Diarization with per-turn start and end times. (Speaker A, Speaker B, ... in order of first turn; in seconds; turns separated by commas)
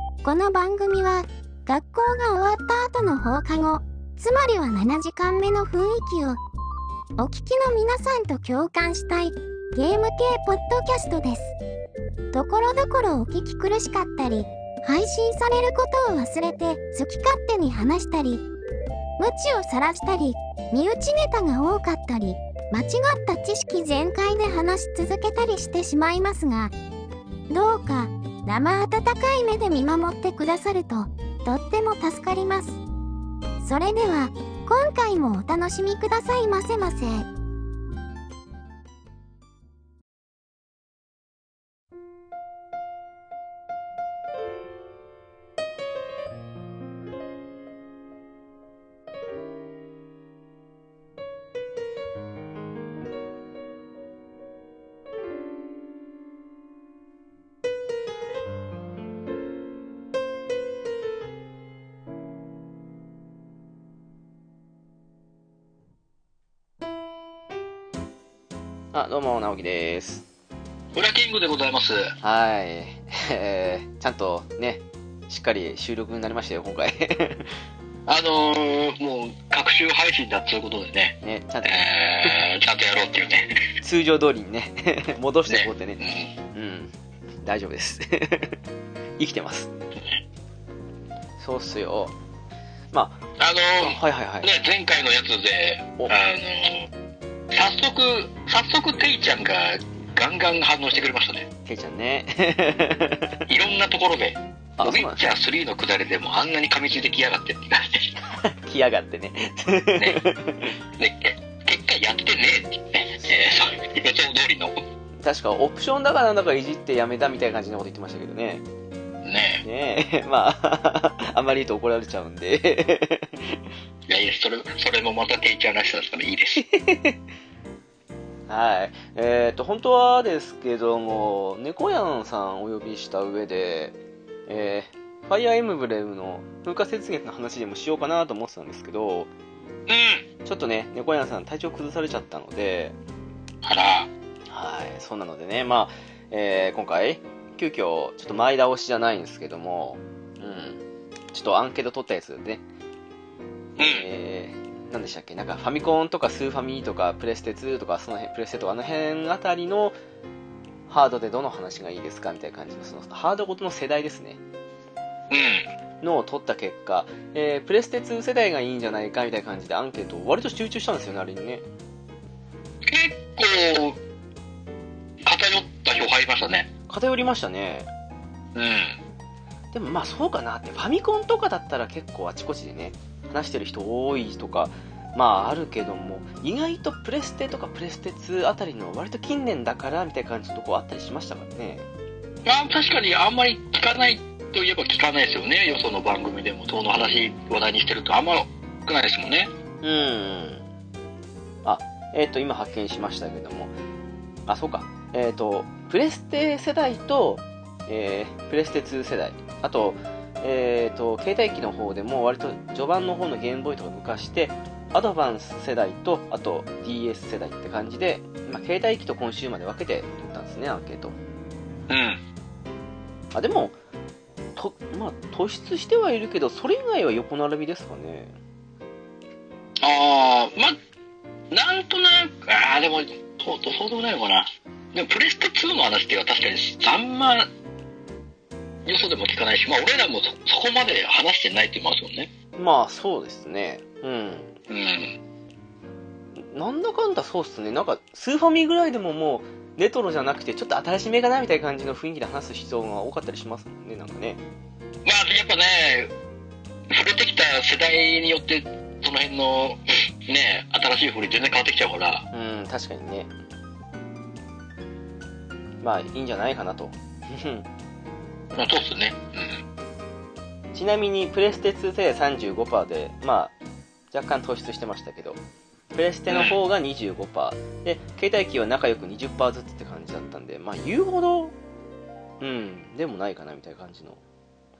Speaker A: 0.2-6.4, Speaker A: 7.2-11.5, Speaker A: 12.3-18.4, Speaker A: 19.2-26.7, Speaker A: 27.5-32.8, Speaker A: 33.6-37.3, Speaker B: 68.9-70.2, Speaker C: 70.9-72.1, Speaker B: 72.2-77.5, Speaker C: 78.1-83.5, Speaker B: 81.2-82.4, Speaker B: 83.8-88.6, Speaker C: 85.5-86.3, Speaker B: 89.2-89.7, Speaker C: 90.0-90.2, Speaker B: 91.4-92.1, Speaker B: 92.9-93.2, Speaker C: 93.4-96.9, Speaker B: 93.8-94.5, Speaker C: 97.5-101.5, Speaker B: 101.6-103.4, Speaker C: 103.5-108.1, Speaker B: 104.8-105.2, Speaker B: 108.2-110.8, Speaker C: 110.0-110.2, Speaker C: 111.0-114.8, Speaker B: 113.2-113.5, Speaker B: 115.2-118.6, Speaker C: 119.2-119.6, Speaker B: 119.6-123.6, Speaker C: 124.1-126.6, Speaker B: 126.6-127.2, Speaker B: 128.5-139.3, Speaker C: 139.9-140.2, Speaker B: 140.4-143.0, Speaker C: 143.6-144.1, Speaker B: 144.5-150.8, Speaker B: 151.3-152.6, Speaker C: 153.8-154.1, Speaker B: 153.8-160.0, Speaker B: 160.9-164.4, Speaker C: 165.3-165.7, Speaker B: 166.0-171.6, Speaker C: 172.8-174.0, Speaker C: 175.2-176.7, Speaker B: 176.9-177.9, Speaker C: 178.5-179.0, Speaker B: 179.7-191.9, Speaker C: 192.4-199.5, Speaker B: 199.8-200.7, Speaker B: 201.6-203.7, Speaker B: 204.5-221.2, Speaker C: 221.9-222.2, Speaker B: 223.3-223.8, Speaker B: 224.6-228.3, Speaker C: 229.8-230.8, Speaker C: 231.5-237.5, Speaker C: 238.8-242.3, Speaker B: 242.6-244.5, Speaker C: 244.7-245.2, Speaker B: 246.3-254.4, Speaker C: 255.0-256.1, Speaker C: 256.9-262.2, Speaker B: 262.3-263.3, Speaker B: 265.8-267.7, Speaker C: 268.5-269.6, Speaker B: 270.7-273.5, Speaker B: 274.1-275.4, Speaker B: 275.9-281.5, Speaker C: 276.3-276.6, Speaker B: 282.4-284.2